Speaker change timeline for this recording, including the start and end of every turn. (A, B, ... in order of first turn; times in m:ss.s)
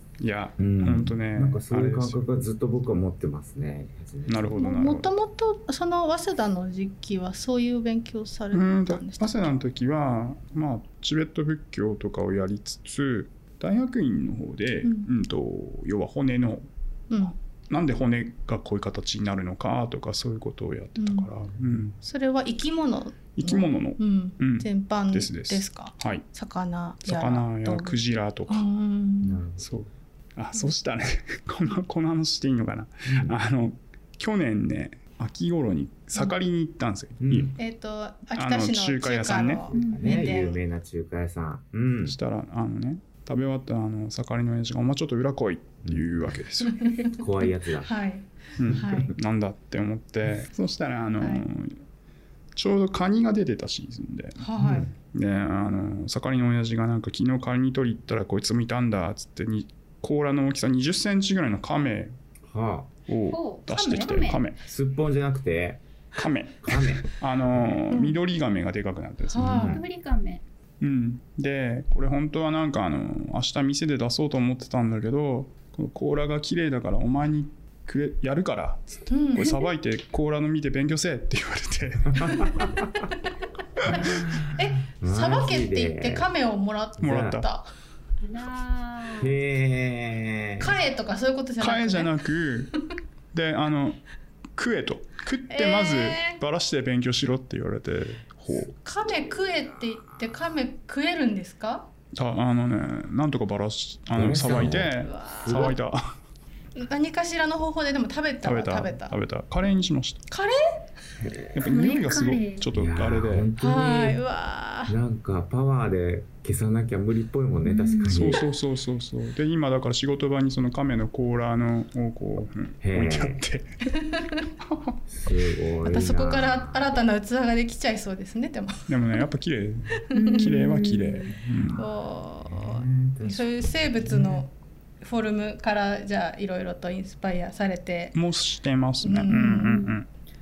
0:00.2-0:02.2 A
0:00.6-0:04.6 B
0:04.3-0:05.1 A
0:04.6-0:09.5 C
0:08.5-0:16.7 A
0:17.1-0:17.4 C
0:17.7-0:22.0 A
0:21.0-0:21.3 C
0:22.0-0:28.0 C
0:23.3-0:26.2 A
0:27.0-0:28.7 A
0:28.5-0:29.4 C
0:29.2-0:29.6 B
0:29.6-0:37.6 A
0:33.0-0:33.4 B
0:37.2-0:37.5 B
0:37.6-0:40.6 C
0:38.3-0:39.6 A
0:39.7-0:40.4 D
0:39.7-0:42.2 B
0:42.0-0:46.9 A
0:45.8-0:46.2 B
0:46.6-0:49.1 C
0:47.2-0:47.9 B
0:48.6-0:51.8 A
0:51.2-0:51.4 C
0:52.5-1:02.1 A
0:54.4-0:54.9 C
0:54.6-0:54.9 B
1:02.4-1:02.9 B
1:03.1-1:04.6 A
1:03.3-1:04.4 D
1:04.6-1:05.8 B
1:06.2-1:09.7 A
1:06.6-1:07.8 B
1:07.9-1:08.2 C
1:09.3-1:09.8 C
1:09.4-1:09.8 B
1:09.7-1:10.4 D
1:10.8-1:22.7 A
1:19.1-1:19.6 C
1:22.1-1:22.7 B
1:23.8-1:26.3 B
1:23.8-1:27.7 C
1:27.0-1:27.4 B
1:27.0-1:27.5 A
1:28.2-1:29.4 D
1:29.2-1:30.8 B
1:30.6-1:32.1 C
1:31.6-1:32.7 A
1:33.3-1:34.0 A
1:34.6-1:38.7 A
1:35.5-1:36.4 C
1:38.7-1:41.9 C
1:42.1-1:46.2 A
1:44.1-1:45.7 B
1:44.6-1:45.7 C
1:46.7-1:49.1 C
1:48.4-1:50.2 A
1:50.3-1:50.6 C
1:51.2-1:51.6 B
1:51.5-1:53.5 A
1:51.6-1:52.6 D
1:52.7-1:54.2 B
1:53.6-1:55.0 C
1:54.9-1:58.4 B
1:57.6-1:58.3 D
1:58.1-2:03.7 A
2:02.8-2:03.4 B
2:04.0-2:04.3 C
2:04.6-2:05.0 A
2:05.1-2:07.0 B
2:05.8-2:08.9 C
2:08.9-2:11.8 A
2:10.1-2:11.4 D
2:10.1-2:10.6 C
2:11.4-2:14.4 B
2:11.8-2:18.1 C
2:18.1-2:20.1 A
2:19.0-2:19.8 C
2:19.3-2:20.0 D